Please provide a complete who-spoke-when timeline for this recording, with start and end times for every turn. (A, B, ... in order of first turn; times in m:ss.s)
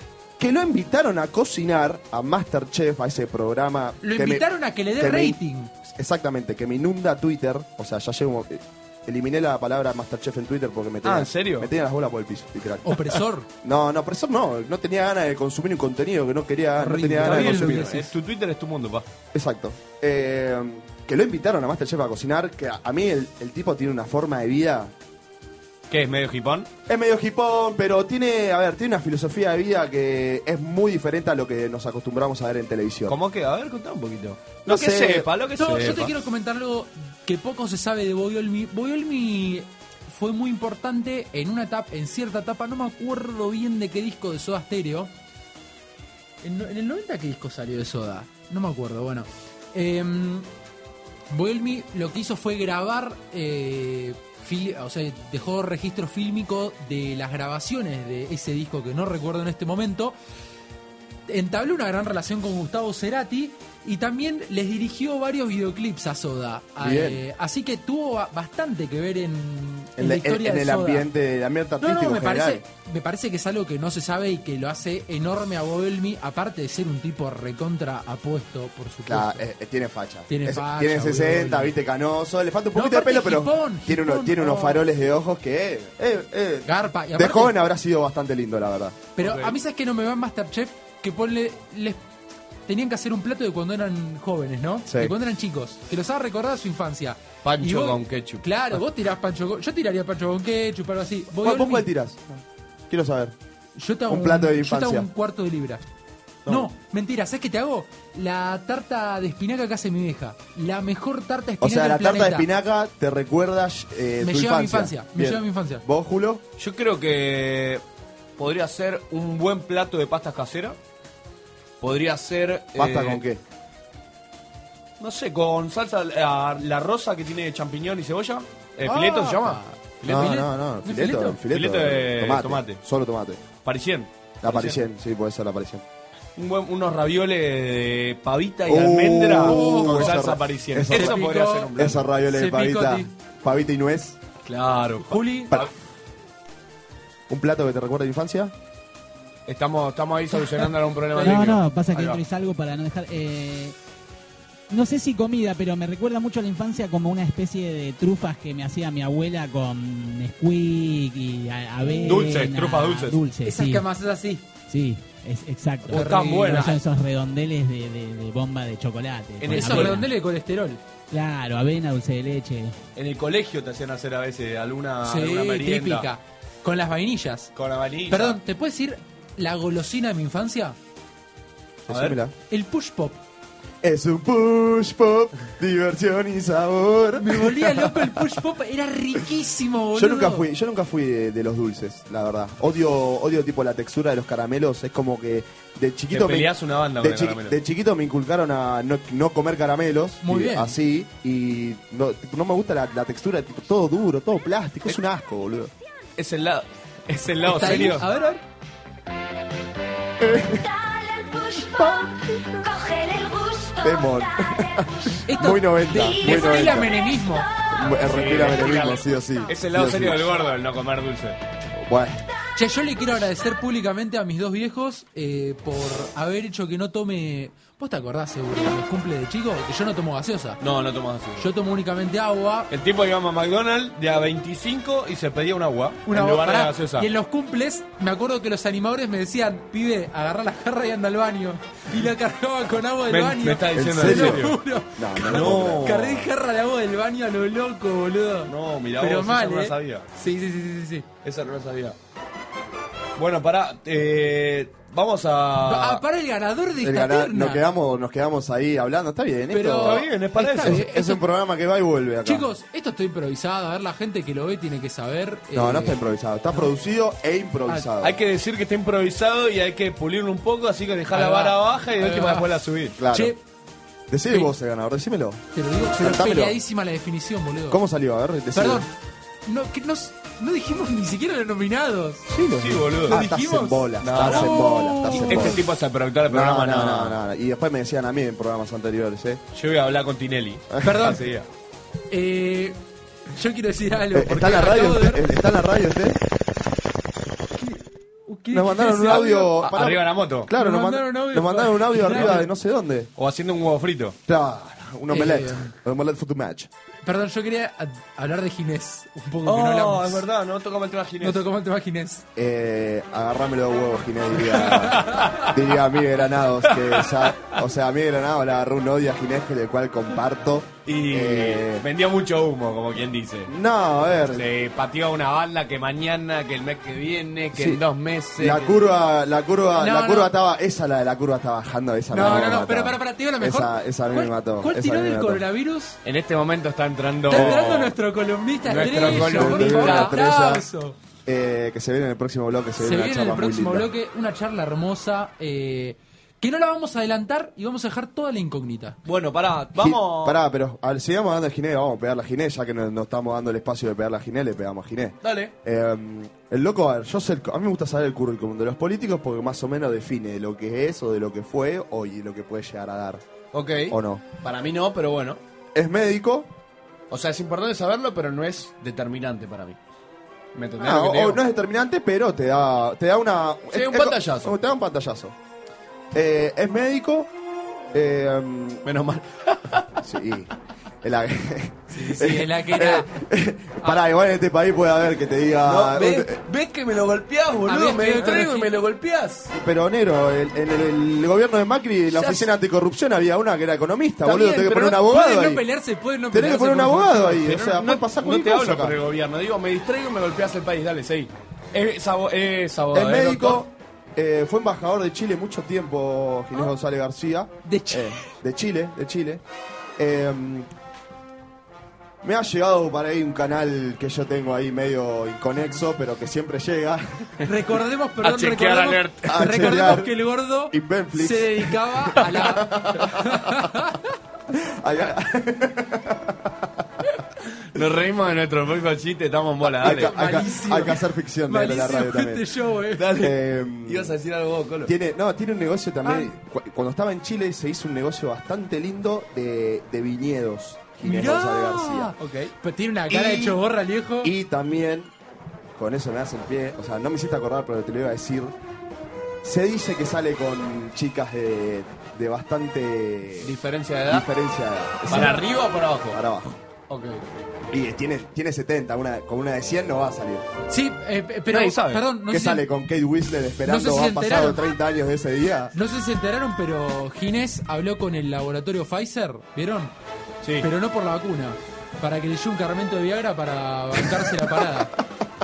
0:00.4-0:04.4 A
0:04.0-0:05.7 B
0:05.0-0:05.4 A
0:05.9-0:13.0 A
0:11.0-0:11.7 C
0:12.8-0:13.5 B
0:13.6-0:17.9 A
0:16.8-0:18.1 B
0:17.2-0:19.1 C
0:19.3-0:24.9 A
0:25.9-0:26.7 C
0:26.9-0:33.2 A
0:33.1-0:36.1 C
0:34.7-0:35.3 A
0:35.6-0:45.1 B
0:46.4-0:50.5 B
0:51.3-1:00.2 B
1:01.3-1:11.1 B
1:06.8-1:07.2 A
1:10.0-1:12.6 A
1:11.8-1:19.4 B
1:19.1-1:29.0 A
1:20.3-1:21.7 B
1:22.7-1:24.8 B
1:26.6-1:27.6 B
1:29.2-1:32.0 B
1:29.2-1:29.6 C
1:32.7-1:41.9 B
1:34.9-1:35.1 A
1:37.4-1:38.8 C
1:41.4-1:43.3 A
1:43.8-1:45.8 B
1:44.1-1:45.1 A
1:46.4-1:46.7 A
1:46.5-1:52.5 B
1:51.6-1:56.4 A
1:54.2-1:55.8 B
1:56.6-1:57.8 C
1:58.4-2:00.8 C
2:01.8-2:03.2 C
2:02.8-2:03.4 A
2:05.0-2:10.2 C
2:08.9-2:13.4 A
2:09.3-2:11.4 B
2:11.5-2:12.8 C
2:13.6-2:14.8 C
2:14.4-2:15.8 A
2:16.4-2:22.0 C
2:18.7-2:21.2 A
2:19.4-2:20.2 B
2:20.9-2:21.7 B
2:21.7-2:24.2 A
2:22.3-2:23.1 B
2:24.5-2:25.6 C
2:25.1-2:25.6 B
2:27.3-2:28.5 A
2:29.5-2:32.2 C
2:31.2-2:31.4 B
2:31.2-2:33.8 D
2:34.7-2:43.9 D
2:42.0-2:43.2 C
2:43.4-2:44.4 B
2:44.7-2:50.1 D
2:45.9-2:46.8 B
2:45.9-2:46.8 C
2:49.4-2:50.0 C
2:49.5-2:50.8 B
2:51.1-2:52.8 D
2:53.0-2:56.1 C
2:55.0-2:57.5 B
2:57.6-2:58.4 C
2:58.1-3:00.8 B
3:01.9-3:02.3 A
3:01.9-3:02.2 C
3:02.5-3:03.2 B
3:03.8-3:08.2 A
3:07.2-3:10.5 B
3:09.9-3:25.7 A
3:16.1-3:17.6 C
3:20.2-3:20.8 B
3:26.2-3:28.1 C
3:27.5-3:28.4 B
3:30.2-3:30.7 A
3:30.6-3:34.8 E
3:31.6-3:32.1 A
3:33.8-3:37.0 A
3:35.3-3:37.5 B
3:36.0-3:37.7 E
3:37.7-3:40.3 A
3:38.0-3:41.4 C
3:41.8-3:42.2 A
3:42.6-3:50.6 B
3:50.6-3:51.5 C
3:51.4-3:52.7 B
3:52.7-3:57.1 C
3:56.1-4:11.1 B
4:03.1-4:04.6 C
4:03.7-4:06.1 A
4:05.3-4:06.3 C
4:08.5-4:10.0 C
4:11.2-4:12.0 C
4:13.2-4:16.0 C
4:15.6-4:17.6 B
4:16.8-4:20.1 A
4:19.5-4:21.2 B
4:19.8-4:20.8 C
4:20.6-4:22.5 A
4:22.2-4:26.0 B
4:25.5-4:28.2 A
4:28.0-4:33.0 C
4:31.1-4:32.5 B
4:33.0-4:33.3 A
4:33.1-4:33.4 B
4:34.1-4:35.4 A
4:35.6-4:37.8 B
4:36.0-4:36.6 A
4:37.7-4:38.8 A
4:38.5-4:38.9 B
4:39.5-4:42.3 B
4:42.3-4:45.6 A
4:42.6-4:43.2 C
4:43.1-4:45.6 B
4:44.0-4:47.2 C
4:46.3-4:49.4 A
4:49.5-4:51.5 C
4:50.7-4:51.2 A
4:50.8-4:51.2 B
4:52.1-4:52.8 B
4:53.3-4:55.2 B
4:54.1-4:56.2 A
4:57.6-4:59.6 B
4:58.5-5:03.1 A
4:59.6-5:00.5 C
5:00.6-5:02.5 B
5:02.1-5:02.4 C
5:03.2-5:04.2 C
5:04.3-5:06.7 A
5:05.1-5:05.7 B
5:07.0-5:10.2 B
5:09.4-5:11.4 C
5:11.2-5:12.2 B
5:12.4-5:21.9 A
5:15.1-5:15.5 C
5:16.7-5:17.3 C
5:20.9-5:23.5 C
5:23.5-5:24.5 A
5:24.2-5:28.8 C
5:27.5-5:27.8 A
5:28.4-5:35.4 A
5:29.8-5:30.3 B
5:32.1-5:36.0 B
5:36.0-5:37.9 C
5:37.3-5:41.0 B
5:38.7-5:40.2 C
5:38.8-5:40.7 A
5:41.3-5:43.9 A
5:42.8-5:49.0 B
5:49.0-5:50.4 C
5:49.8-6:03.2 A
5:55.2-5:55.5 C
6:03.5-6:05.4 C
6:03.9-6:04.2 A
6:05.7-6:06.5 A
6:07.1-6:09.8 C
6:10.6-6:11.4 C
6:10.8-6:15.4 A
6:13.7-6:14.6 C
6:16.1-6:17.3 A
6:17.9-6:18.8 A
6:18.8-6:19.8 C
6:20.0-6:20.5 A
6:21.0-6:26.4 A
6:21.9-6:23.2 B
6:25.6-6:29.5 C
6:27.7-6:28.7 B
6:29.5-6:35.6 A
6:32.1-6:32.5 C
6:34.2-6:37.6 B
6:36.3-6:39.0 A
6:37.4-6:43.6 C
6:42.9-6:49.4 A
6:47.6-6:48.1 B
6:50.0-6:50.7 A
6:52.2-6:57.0 A
6:57.4-7:04.0 B
6:58.2-6:59.7 C
6:59.2-7:00.1 A
7:00.7-7:01.5 A
7:02.0-7:03.6 A
7:04.5-7:06.7 A
7:07.7-7:10.1 C
7:09.6-7:12.4 A
7:09.8-7:13.1 B
7:13.0-7:14.9 C
7:13.2-7:14.1 A
7:14.8-7:22.1 A
7:16.0-7:16.3 B
7:21.0-7:24.3 B
7:22.2-7:22.5 C
7:23.1-7:23.6 A
7:24.2-7:25.1 A
7:25.8-7:28.5 A
7:29.4-7:33.6 A
7:33.4-7:34.3 C
7:34.1-7:35.4 A
7:35.1-7:36.2 C
7:35.1-7:35.4 B
7:36.1-7:36.6 A
7:36.9-7:37.2 C
7:37.7-7:40.4 A
7:40.7-7:42.7 B
7:41.5-7:42.0 C
7:42.3-7:45.7 A
7:43.7-7:44.6 B
7:45.7-7:49.9 B
7:50.4-7:50.7 C
7:50.6-7:54.9 B